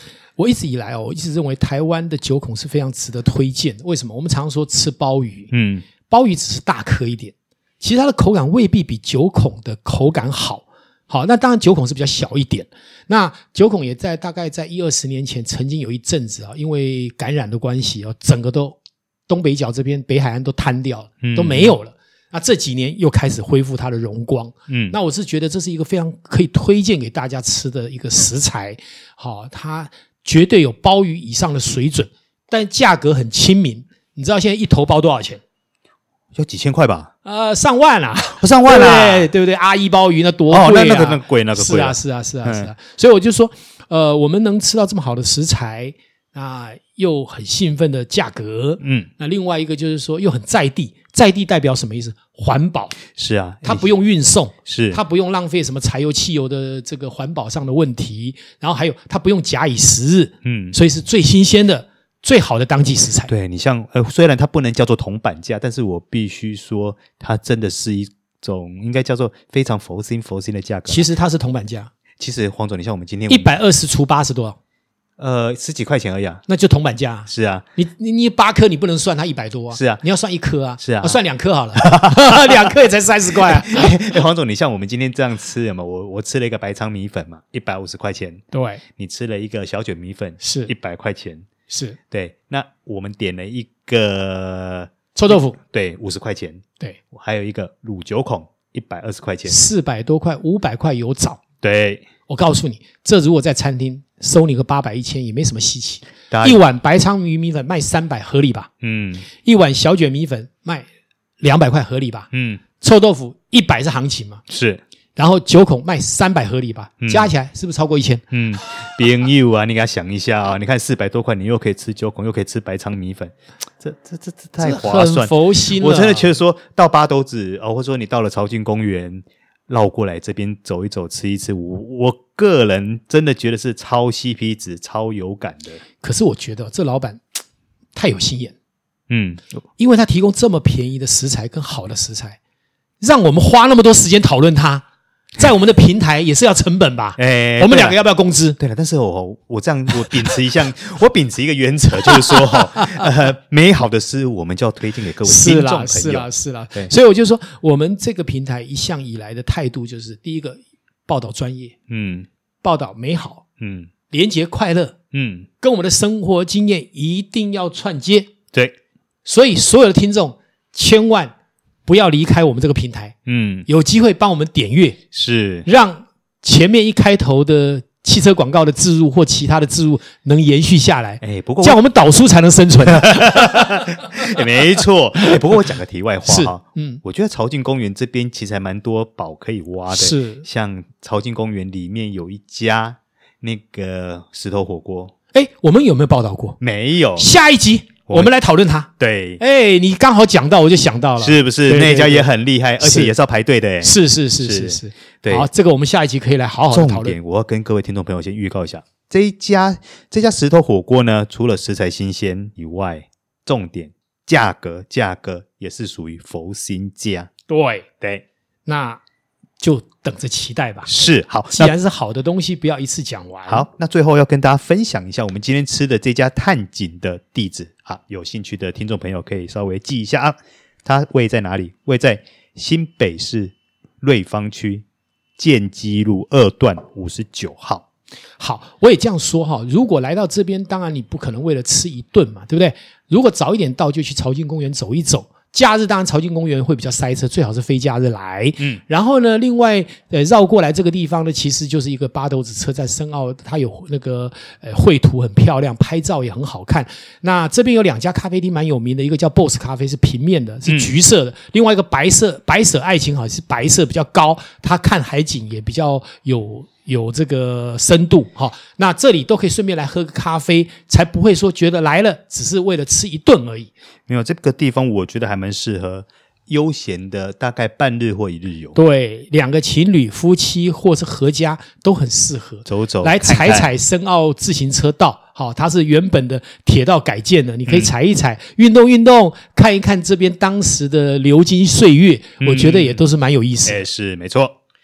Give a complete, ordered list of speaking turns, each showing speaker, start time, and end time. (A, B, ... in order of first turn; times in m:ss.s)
0:00.4-0:05.5 A
0:05.5-0:05.8 B
0:06.1-0:35.4 A
0:21.2-0:21.7 B
0:24.7-0:24.9 B
0:36.3-0:37.1 B
0:37.2-0:53.0 A
0:38.4-0:39.3 B
0:40.5-0:42.7 B
0:48.8-0:49.1 B
0:53.2-0:53.9 B
0:53.6-1:03.3 A
0:54.6-0:55.0 B
1:00.4-1:00.8 B
1:03.3-1:11.1 B
1:10.9-1:11.9 A
1:12.2-1:13.5 B
1:13.3-1:14.6 A
1:15.2-1:16.4 B
1:16.5-1:24.1 A
1:17.3-1:17.6 B
1:19.7-1:20.0 B
1:20.8-1:21.2 B
1:21.8-1:22.6 B
1:23.4-1:28.4 B
1:28.5-1:28.8 A
1:29.0-1:31.4 B
1:30.4-1:30.7 A
1:31.7-1:32.0 A
1:32.1-1:39.6 B
1:35.1-1:35.6 A
1:39.5-1:41.4 A
1:41.6-1:42.0 B
1:42.3-1:48.7 A
1:46.3-1:46.6 B
1:48.8-1:49.3 B
1:49.4-1:50.9 A
1:51.4-1:54.4 A
1:52.3-1:52.6 B
1:54.5-1:54.8 B
1:55.2-1:58.2 A
1:57.0-1:57.3 B
1:58.3-2:15.8 B
2:04.6-2:06.3 A
2:16.0-2:17.2 A
2:17.9-2:18.5 A
2:19.1-2:19.4 B
2:19.8-2:22.4 A
2:23.0-2:24.8 A
2:25.4-2:28.6 A
2:27.2-2:28.0 B
2:28.6-2:36.9 B
2:32.1-2:33.0 A
2:35.2-2:41.7 A
2:41.9-2:42.3 B
2:42.6-2:43.4 A
2:43.6-2:43.9 B
2:44.1-2:45.0 A
2:45.1-2:45.5 B
2:45.6-2:48.3 A
2:49.2-2:51.3 A
2:51.8-2:53.1 A
2:53.3-2:53.7 B
2:53.7-2:55.0 A
2:55.1-2:55.7 B
2:55.6-3:04.2 A
3:01.2-3:01.8 B
3:03.0-3:15.1 B
3:06.2-3:07.0 A
3:09.9-3:10.4 A
3:15.3-3:16.6 A
3:16.6-3:17.3 B
3:17.2-3:22.3 A
3:19.0-3:19.4 B
3:21.2-3:25.5 B
3:22.8-3:23.1 A
3:23.8-3:27.2 A
3:26.7-3:37.3 B
3:37.5-3:37.8 A
3:38.6-3:39.0 A
3:39.6-3:40.9 A
3:40.8-3:41.7 B
3:41.5-3:43.6 A
3:43.5-3:54.8 B
3:55.4-3:57.8 B
3:58.4-4:33.7 A
4:20.7-4:20.9 B
4:34.1-4:38.8 B
4:38.7-4:53.8 A
4:42.7-4:43.7 B
4:52.4-4:53.0 B
4:53.6-4:54.5 B